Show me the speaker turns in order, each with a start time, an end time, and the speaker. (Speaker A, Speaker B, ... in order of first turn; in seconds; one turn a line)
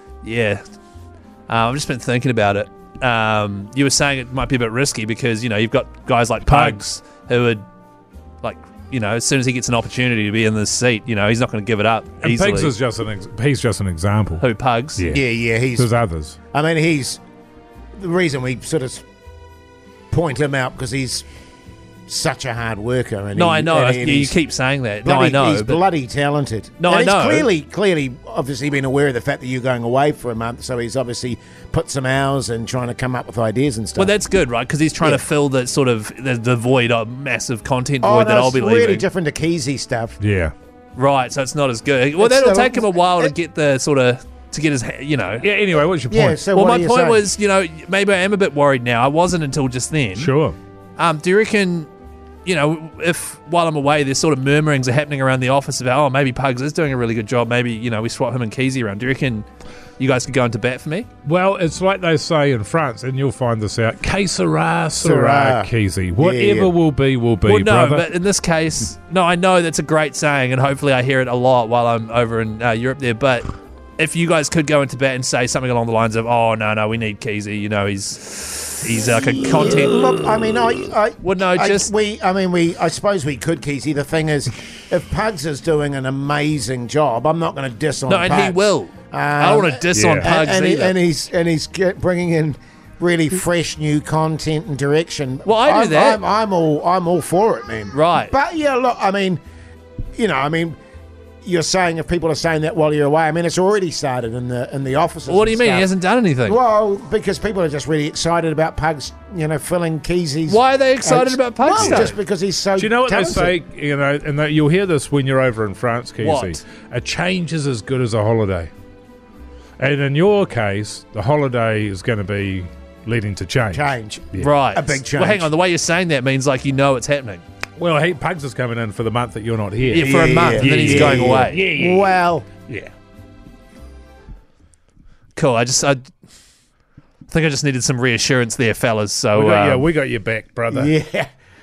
Speaker A: 0.2-0.6
Speaker A: 1.5-7.6
Speaker B: 6.5-6.8
Speaker A: 8.4-12.8
Speaker B: 12.2-14.4
Speaker A: 14.4-15.1
Speaker B: 15.0-16.4
Speaker C: 15.1-15.9
Speaker C: 16.5-17.2
Speaker C: 18.0-19.0
Speaker C: 20.1-21.2
Speaker C: 22.1-24.4
Speaker A: 23.4-25.8
Speaker C: 25.0-34.1
Speaker A: 26.8-27.5
Speaker A: 34.0-39.1
Speaker C: 38.0-40.2
Speaker B: 40.2-40.5
Speaker A: 41.0-45.5
Speaker C: 42.2-43.3
Speaker B: 45.4-46.4
Speaker C: 46.1-47.3
Speaker A: 46.5-50.3
Speaker B: 50.2-50.6
Speaker A: 51.0-51.9
Speaker A: 52.5-61.1
Speaker B: 61.2-68.1
Speaker C: 65.0-66.7
Speaker A: 67.5-80.1
Speaker C: 79.1-99.4
Speaker A: 81.2-81.9
Speaker A: 88.1-91.0
Speaker B: 89.9-90.3
Speaker A: 95.5-96.2
Speaker A: 97.9-98.3
Speaker C: 100.2-100.8
Speaker C: 101.4-105.9
Speaker A: 105.3-106.6
Speaker C: 106.5-113.6
Speaker A: 110.5-112.2
Speaker B: 111.7-112.1
Speaker B: 112.8-118.7
Speaker A: 116.2-116.6
Speaker B: 119.8-124.5
Speaker C: 123.7-125.5
Speaker A: 124.4-127.4
Speaker B: 127.8-132.9
Speaker A: 129.8-131.7
Speaker C: 130.0-132.5
Speaker A: 135.3-136.0
Speaker A: 137.3-139.9
Speaker B: 139.3-140.9
Speaker C: 140.7-141.3